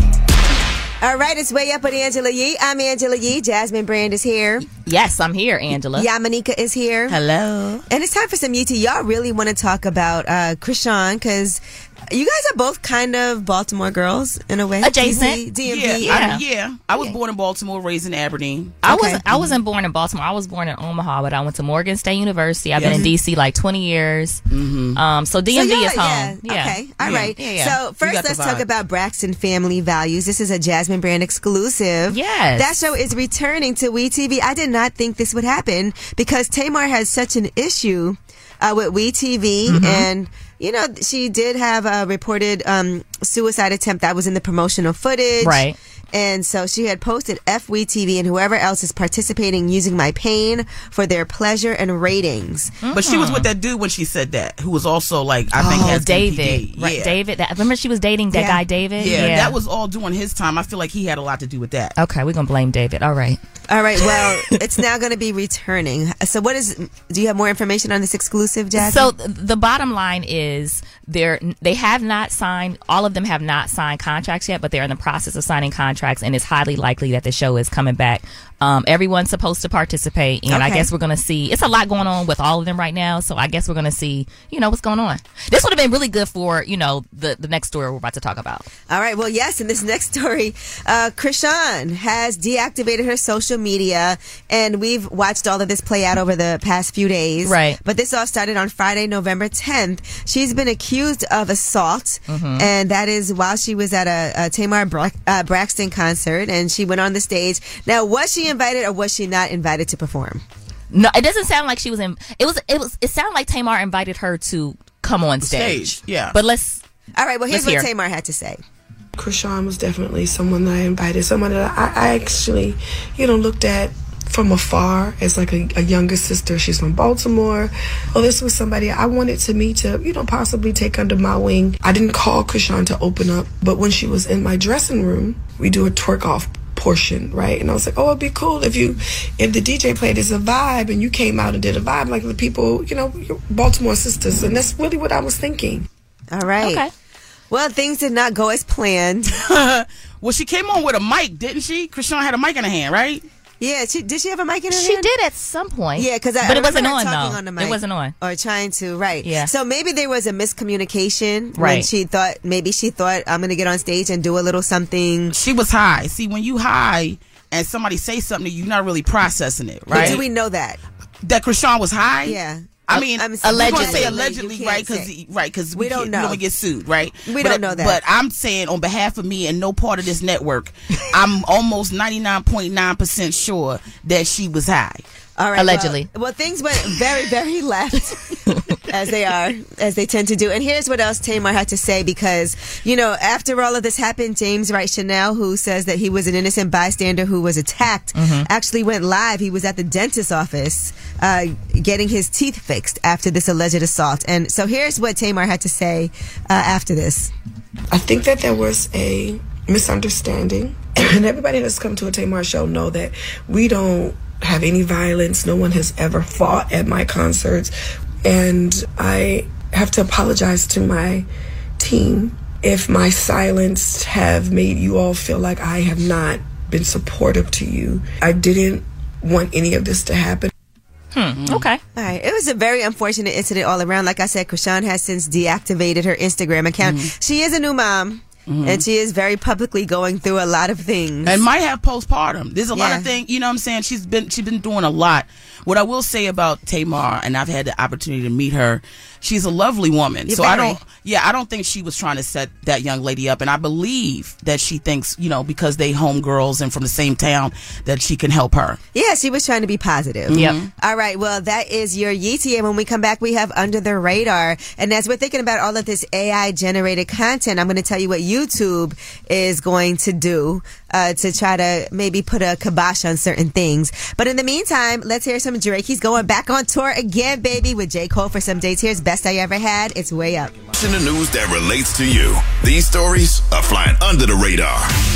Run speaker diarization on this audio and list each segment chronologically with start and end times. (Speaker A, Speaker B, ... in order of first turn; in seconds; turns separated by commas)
Speaker A: 1.0-4.7, Speaker B: 4.8-6.1, Speaker A: 5.9-7.2, Speaker B: 7.1-7.8, Speaker A: 7.9-16.3, Speaker B: 14.8-15.4, Speaker C: 15.7-18.8, Speaker B: 16.1-16.4, Speaker B: 18.8-24.4, Speaker A: 18.9-19.2, Speaker C: 22.8-23.1, Speaker A: 22.8-23.1, Speaker C: 24.5-25.0, Speaker B: 24.9-27.8, Speaker A: 25.5-52.8, Speaker C: 27.0-27.3, Speaker C: 28.0-28.6, Speaker B: 32.1-32.7, Speaker B: 39.7-40.0, Speaker B: 45.4-45.8, Speaker B: 52.8-53.5, Speaker C: 52.9-57.2, Speaker A: 55.6-56.1, Speaker B: 55.7-59.6, Speaker A: 58.3-59.4, Speaker C: 59.0-62.0, Speaker B: 62.0-63.4, Speaker A: 63.7-69.1, Speaker B: 68.8-88.7, Speaker A: 80.5-80.9, Speaker A: 88.9-110.4, Speaker B: 97.4-97.8, Speaker B: 102.3-102.7, Speaker B: 110.9-116.8, Speaker C: 115.4-116.3, Speaker A: 117.2-118.6, Speaker B: 117.5-117.9, Speaker D: 119.2-145.9, Speaker A: 146.3-146.8, Speaker B: 146.6-146.9, Speaker A: 147.5-149.4, Speaker C: 149.3-153.2, Speaker A: 153.6-155.1, Speaker B: 154.7-158.1, Speaker A: 156.0-165.4, Speaker B: 159.2-159.5, Speaker B: 161.6-161.9, Speaker C: 165.3-170.2, Speaker B: 169.9-170.2, Speaker A: 169.9-170.8, Speaker C: 171.2-185.1, Speaker A: 172.2-175.1, Speaker B: 173.4-174.2, Speaker A: 175.7-176.4, Speaker A: 177.2-178.0, Speaker A: 185.4-188.2, Speaker B: 185.6-186.1, Speaker A: 188.9-207.3, Speaker B: 198.2-198.5, Speaker D: 207.9-217.7, Speaker D: 218.2-221.3, Speaker D: 221.8-230.5, Speaker B: 231.1-231.8, Speaker C: 231.4-231.7, Speaker A: 232.0-241.4, Speaker C: 236.8-237.1, Speaker C: 238.5-238.8, Speaker C: 241.2-258.8, Speaker A: 242.7-243.1, Speaker A: 250.3-250.8, Speaker A: 258.9-280.6, Speaker C: 260.3-260.7, Speaker E: 280.8-285.0